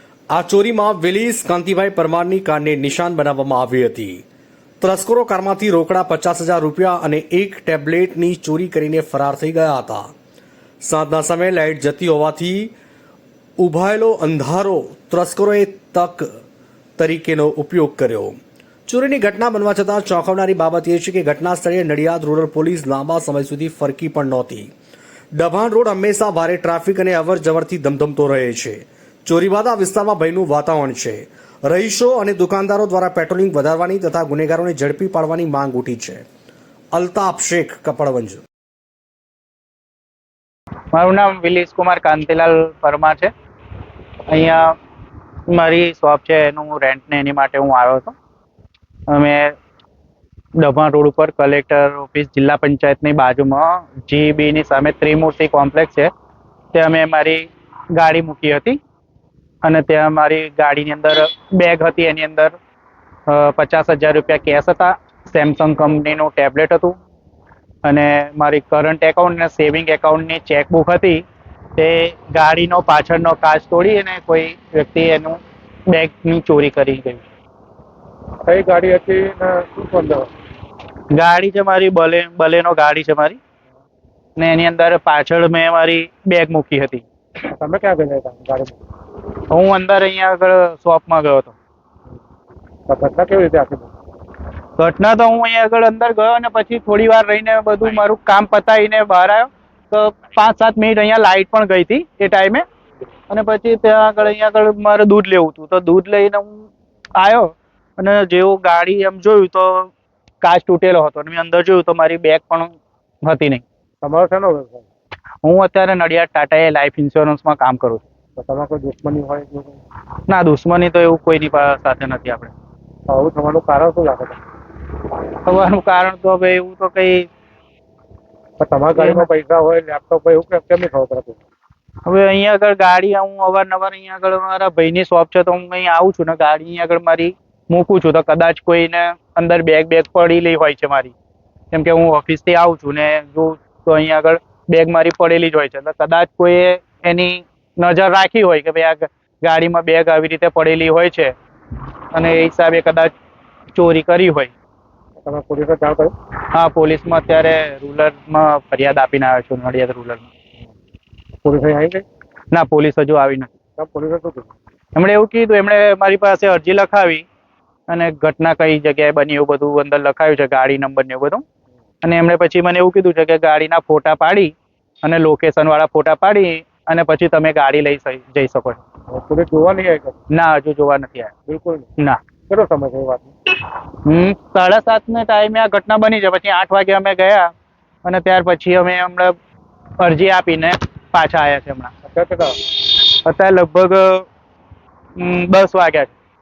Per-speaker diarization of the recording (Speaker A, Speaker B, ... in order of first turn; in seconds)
Speaker A: 0.3-4.2, 4.8-10.1, 10.8-12.7, 13.6-16.3, 17.0-24.7, 25.3-36.2, 36.9-38.4
Speaker B: 40.9-43.3, 44.3-44.8, 45.5-48.2, 49.1-49.5, 50.6-56.1, 56.7-58.8, 59.6-62.6, 63.3-67.0, 67.8-71.2, 71.8-77.2, 81.1-83.4, 84.4-87.0, 89.4-91.6, 94.8-102.6, 103.3-113.6, 115.4-118.0, 120.3-122.5, 125.1-127.3, 129.0-129.3, 132.1-141.2, 141.7-151.3, 152.1-153.1, 153.7-154.5, 156.5-160.3, 162.5-163.5, 164.9-167.3, 167.9-171.4, 172.0-178.8, 180.3-181.3, 183.9-187.5, 188.0-189.4, 190.0-191.9, 192.7-194.3, 195.2-196.1
Speaker C: 78.5-80.3, 87.5-88.8, 92.9-93.9, 114.0-114.8, 118.4-119.8, 123.1-124.4, 128.6-131.4, 155.2-156.1, 161.4-162.0, 163.8-164.5, 179.1-180.2, 181.5-181.9, 182.5-183.3, 192.1-192.6